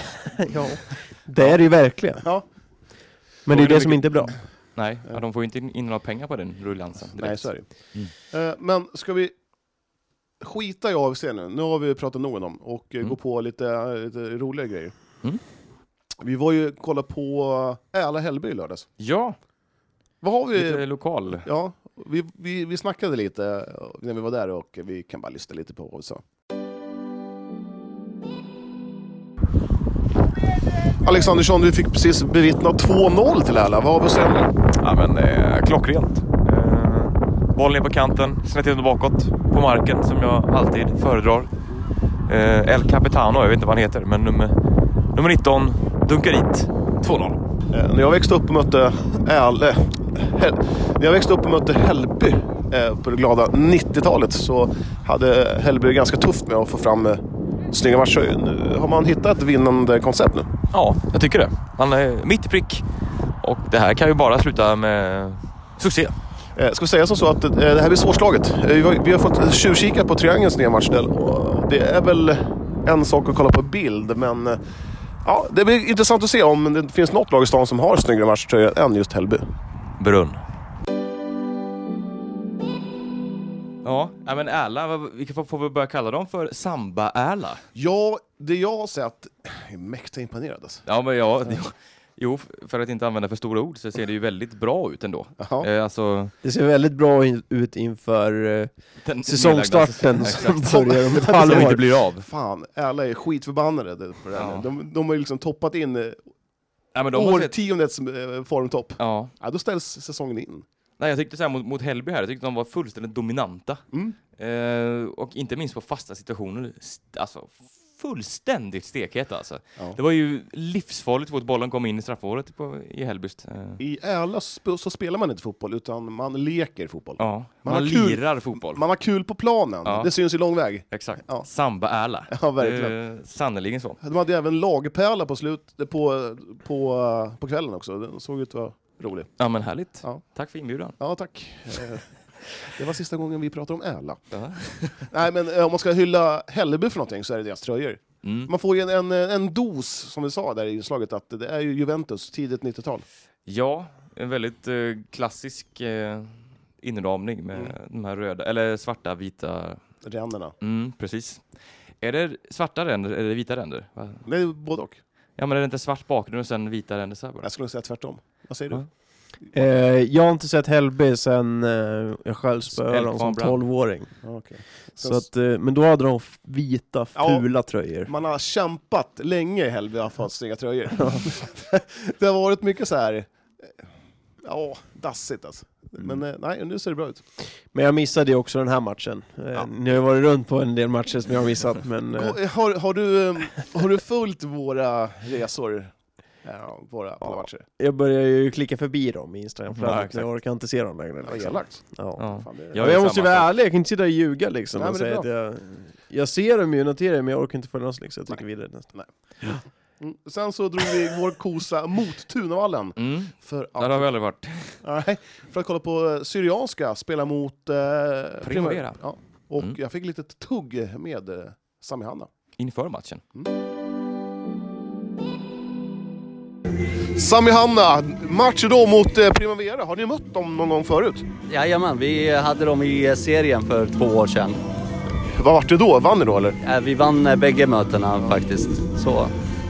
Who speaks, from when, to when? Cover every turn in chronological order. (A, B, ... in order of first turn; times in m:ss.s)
0:00.2-0:02.2 A
0:02.2-0:02.4 B
0:03.5-0:04.3 A
0:03.5-0:08.1 C
0:07.2-0:07.7 B
0:08.3-0:09.3 B
0:10.4-0:14.9 B
0:16.2-0:18.9 B
0:19.0-0:19.4 C
0:20.2-0:26.2 B
0:20.5-0:21.5 C
0:31.0-0:34.5 B
0:34.8-0:41.5 C
0:42.3-0:44.6 C
0:45.1-0:47.4 C
0:47.7-0:57.2 B
0:57.7-1:00.5 B
1:00.7-1:02.8 C
1:03.4-1:06.2 C
1:06.6-1:14.6 B
1:15.2-1:19.4 B
1:20.0-1:20.4 C
1:23.8-1:27.6 C
1:27.8-1:30.8 B
1:30.9-1:36.3 C
1:35.4-1:35.7 B
1:36.4-1:38.7 A
1:39.0-1:42.3 C
1:39.2-1:41.8 A
1:40.5-1:46.2 B
1:44.3-1:44.7 C
1:46.9-1:47.6 C
1:47.1-1:50.7 B
1:49.0-1:49.3 C
1:51.0-1:53.8 C
1:54.4-2:03.8 C
2:03.8-2:11.5 B
2:07.2-2:08.8 C
2:09.8-2:10.1 C
2:10.9-2:14.0 C
2:12.3-2:13.0 B
2:14.0-2:19.3 B
2:19.4-2:21.0 C
2:21.0-2:24.2 B
2:24.3-2:25.1 C
2:25.1-2:33.0 B
2:28.2-2:28.5 C
2:33.5-2:39.8 C
2:40.0-2:40.5 B
2:40.6-2:41.4 C
2:42.0-2:44.2 C
2:44.3-2:45.0 B
2:45.4-2:47.5 C
2:47.4-2:48.8 B
2:49.5-2:54.1 A
2:52.8-2:53.6 C
2:54.2-2:55.3 B
2:55.0-2:58.1 A
2:57.2-2:57.4 B
2:58.1-3:03.7 B
3:04.4-3:07.2 B
3:07.7-3:12.4 A
3:12.2-3:17.6 B
3:17.8-3:29.6 A
3:19.7-3:20.3 C
3:21.2-3:23.0 B
3:22.2-3:23.5 C
3:24.8-3:25.3 B
3:30.0-3:34.1 B
3:33.0-3:34.8 C
3:34.8-3:42.3 B
3:38.4-3:39.0 C
3:42.6-3:43.2 C
3:47.2-3:51.3 B
3:51.5-3:54.6 D
3:55.3-3:56.6 B
3:56.6-3:59.3 D